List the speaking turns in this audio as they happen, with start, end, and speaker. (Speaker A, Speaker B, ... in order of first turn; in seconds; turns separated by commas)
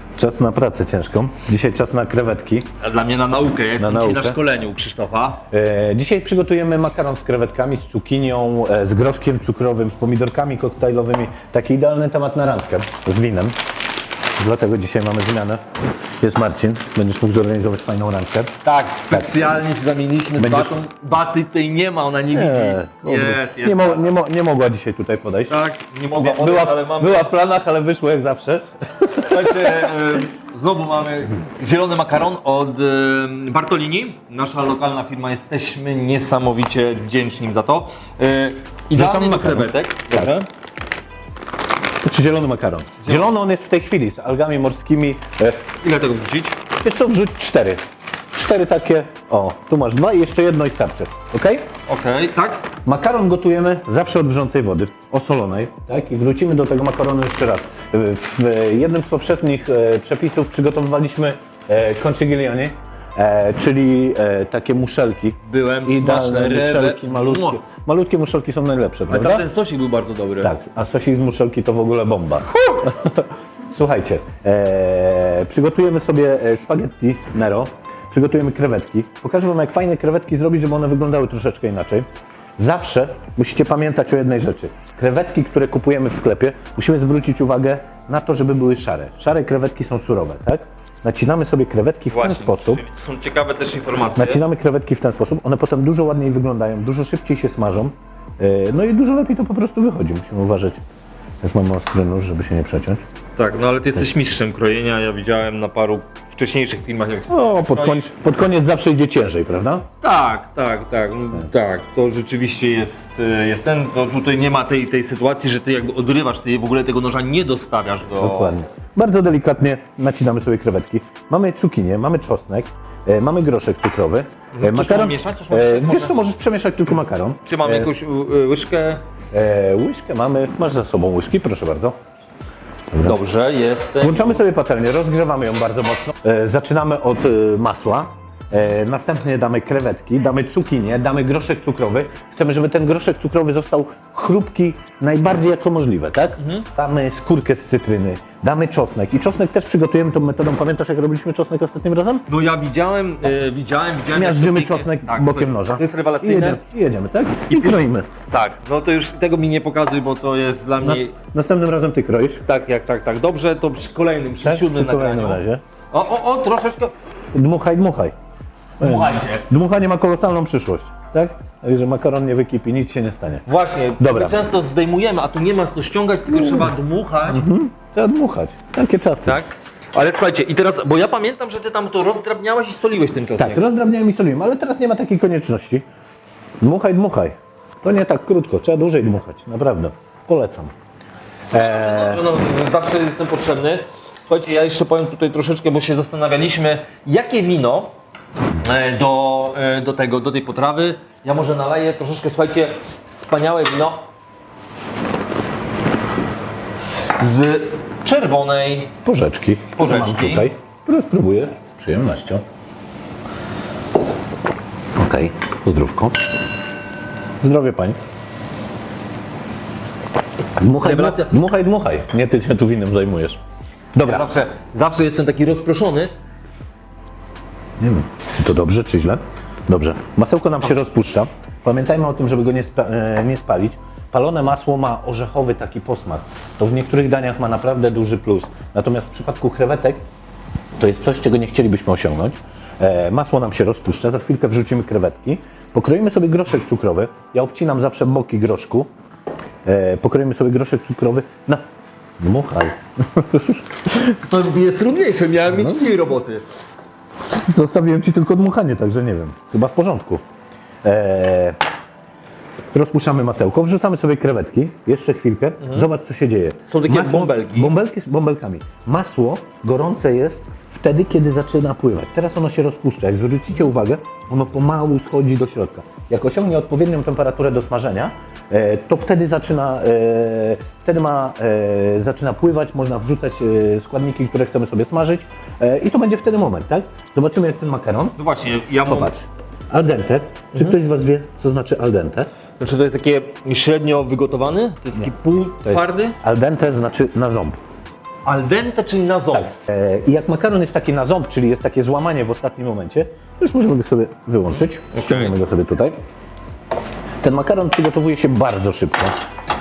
Speaker A: 0.2-2.7, Speaker B: 2.8-5.4, Speaker A: 3.8-4.4, Speaker A: 5.5-13.6, Speaker A: 14.4-15.6, Speaker A: 16.2-18.6, Speaker B: 18.6-24.1, Speaker A: 19.1-19.5, Speaker A: 20.4-20.8, Speaker A: 22.3-25.6, Speaker B: 25.5-27.3, Speaker A: 26.2-29.9, Speaker B: 29.2-40.5, Speaker A: 38.9-40.3, Speaker A: 42.0-45.6, Speaker B: 43.0-43.3, Speaker B: 45.8-46.6, Speaker A: 46.8-51.6, Speaker B: 51.9-52.6, Speaker A: 52.9-69.5, Speaker B: 65.4-67.6, Speaker B: 69.1-70.5, Speaker A: 70.4-82.1, Speaker A: 82.6-92.8, Speaker B: 92.1-94.4, Speaker A: 94.2-100.8, Speaker A: 101.4-103.0, Speaker B: 103.4-108.1, Speaker A: 107.3-109.9, Speaker B: 110.0-118.6, Speaker A: 118.2-127.9, Speaker B: 124.5-126.2, Speaker B: 127.5-129.0, Speaker A: 129.3-132.0, Speaker A: 132.9-133.2, Speaker B: 133.0-134.4, Speaker A: 134.0-152.2, Speaker B: 146.4-146.7, Speaker B: 152.3-156.6, Speaker A: 154.1-158.1, Speaker B: 157.5-161.1, Speaker A: 160.8-162.4, Speaker B: 162.5-166.9, Speaker A: 164.4-165.6, Speaker A: 167.3-168.1, Speaker B: 168.8-169.5, Speaker A: 168.8-173.4, Speaker B: 173.5-177.5, Speaker A: 174.0-174.4, Speaker A: 176.3-176.7, Speaker A: 177.3-179.4, Speaker B: 179.3-183.6, Speaker A: 183.4-185.8, Speaker A: 186.6-190.7, Speaker A: 191.5-192.2, Speaker B: 191.5-197.9, Speaker B: 198.6-204.1, Speaker B: 207.2-208.9, Speaker A: 209.1-212.4, Speaker B: 209.8-210.5, Speaker A: 215.0-216.2, Speaker A: 217.4-218.0, Speaker A: 220.6-223.4, Speaker B: 220.8-221.4, Speaker A: 223.9-224.2, Speaker B: 224.0-226.1, Speaker A: 227.8-240.0, Speaker A: 240.8-248.9, Speaker A: 249.7-251.6, Speaker A: 252.2-253.7, Speaker B: 254.1-256.4, Speaker A: 255.5-255.8, Speaker A: 257.3-260.2, Speaker A: 260.8-261.6, Speaker A: 262.7-288.2, Speaker B: 265.6-265.9, Speaker B: 266.7-267.8, Speaker B: 288.2-289.1, Speaker A: 288.9-292.3, Speaker B: 292.6-296.2, Speaker A: 295.6-297.6, Speaker B: 298.3-299.5, Speaker A: 299.3-306.0, Speaker B: 304.9-305.4, Speaker A: 307.2-309.1